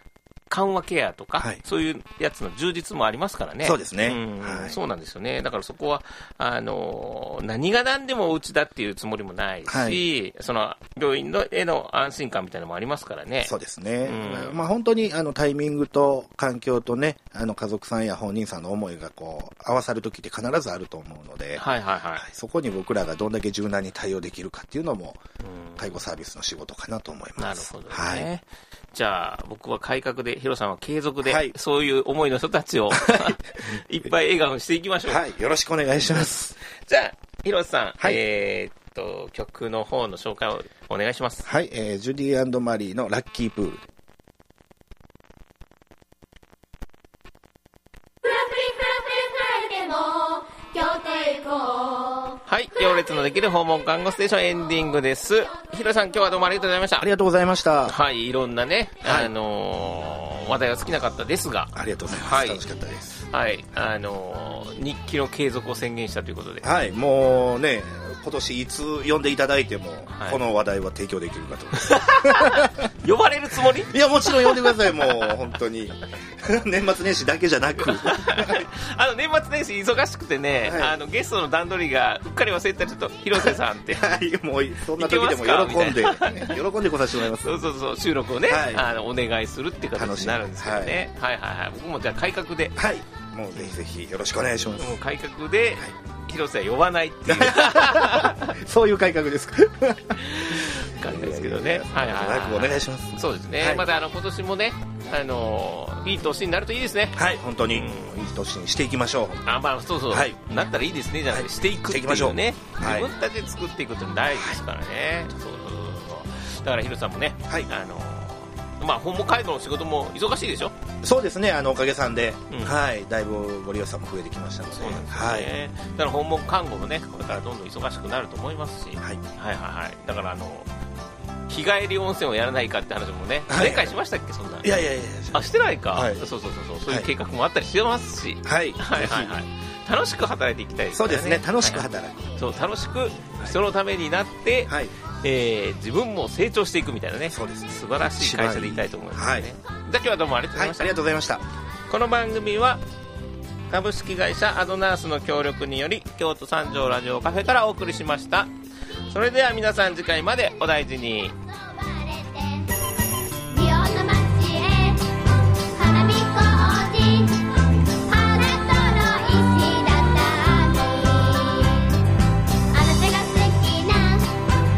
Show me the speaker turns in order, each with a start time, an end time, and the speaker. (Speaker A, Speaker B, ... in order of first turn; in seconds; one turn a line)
Speaker A: 0.5-13.5
Speaker B: 3.6-4.8
Speaker B: 9.7-10.0
Speaker B: 13.5-21.6
Speaker A: 14.0-14.6
Speaker A: 21.6-22.3
Speaker B: 22.2-25.2
Speaker A: 25.4-25.9
Speaker B: 25.8-28.3
Speaker A: 27.4-35.2
Speaker B: 31.2-31.5
Speaker B: 33.0-33.3
Speaker B: 35.1-36.5
Speaker A: 36.1-41.5
Speaker B: 41.4-43.8
Speaker C: 48.2-53.0
Speaker A: 52.5-57.1
Speaker B: 57.0-58.0
Speaker A: 57.9-62.6
Speaker B: 59.0-59.3
Speaker B: 61.7-63.1
Speaker A: 63.2-66.7
Speaker B: 66.6-72.8
Speaker A: 70.1-70.4
Speaker A: 71.8-75.3
Speaker B: 73.9-78.6
Speaker A: 77.8-84.0
Speaker B: 80.6-80.9
Speaker B: 83.3-87.5
Speaker A: 85.0-86.6
Speaker A: 87.3-92.8
Speaker B: 88.5-88.8
Speaker B: 89.9-91.0
Speaker B: 92.8-95.0
Speaker A: 94.8-98.5
Speaker B: 97.3-103.8
Speaker A: 100.2-107.2
Speaker B: 107.1-109.5
Speaker A: 107.7-108.2
Speaker A: 109.5-120.7
Speaker B: 110.1-110.4
Speaker B: 111.3-113.1
Speaker B: 114.3-114.6
Speaker B: 121.0-125.5
Speaker A: 122.5-122.8
Speaker A: 124.8-130.7
Speaker A: 131.5-134.7
Speaker B: 133.5-133.9
Speaker B: 134.6-136.2
Speaker A: 135.3-141.8
Speaker B: 138.4-139.4
Speaker B: 140.9-142.3
Speaker A: 142.4-150.9
Speaker B: 144.7-144.9
Speaker B: 147.3-149.5
Speaker B: 150.5-151.4
Speaker A: 151.9-152.8
Speaker A: 153.7-158.5
Speaker A: 159.1-161.3
Speaker C: 161.4-162.7
Speaker C: 163.5-171.9
Speaker C: 172.7-174.4